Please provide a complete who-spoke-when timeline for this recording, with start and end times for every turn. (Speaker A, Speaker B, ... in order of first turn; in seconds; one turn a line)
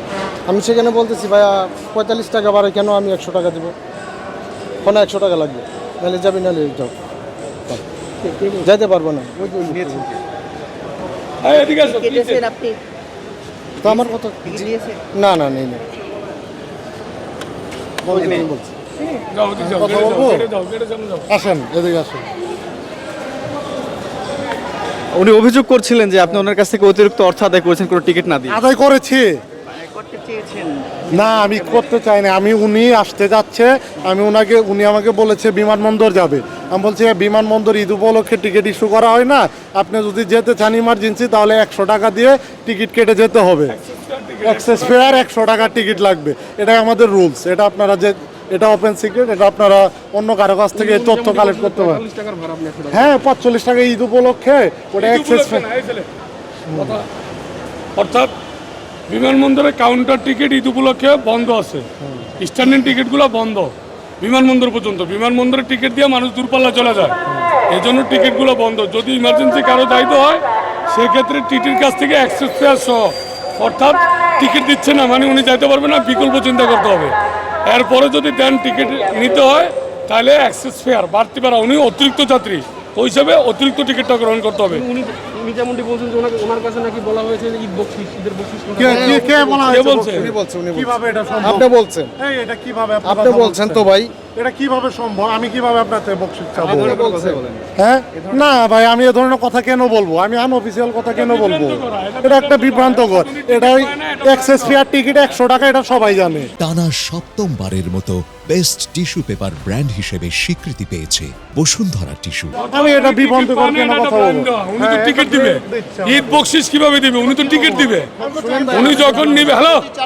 Speaker A: 0.5-3.7
Speaker A: 4.8-6.9
Speaker A: 8.5-10.1
Speaker B: 11.4-12.4
Speaker A: 13.8-15.8
Speaker C: 14.5-15.0
Speaker A: 18.1-18.7
Speaker C: 18.1-18.4
Speaker D: 18.1-18.5
Speaker B: 19.3-21.3
Speaker D: 19.6-20.5
Speaker D: 21.3-22.2
Speaker C: 25.1-28.6
Speaker D: 28.5-29.3
Speaker C: 29.8-31.5
Speaker D: 31.1-43.8
Speaker B: 43.7-45.4
Speaker D: 44.4-52.0
Speaker E: 50.8-53.1
Speaker D: 52.9-55.6
Speaker B: 54.9-56.0
Speaker B: 56.7-57.0
Speaker B: 58.0-58.3
Speaker B: 59.1-61.9
Speaker A: 62.0-62.3
Speaker B: 62.4-67.2
Speaker B: 67.7-84.8
Speaker E: 84.9-89.2
Speaker D: 88.8-91.7
Speaker A: 88.8-92.1
Speaker B: 89.7-90.3
Speaker D: 92.2-97.0
Speaker A: 93.0-94.1
Speaker C: 96.6-98.4
Speaker A: 96.7-97.4
Speaker D: 97.8-106.5
Speaker B: 101.1-104.8
Speaker F: 106.6-112.5
Speaker B: 112.5-118.1
Speaker D: 112.7-116.4
Speaker D: 117.3-119.7
Speaker A: 118.2-119.5
Speaker B: 118.7-119.9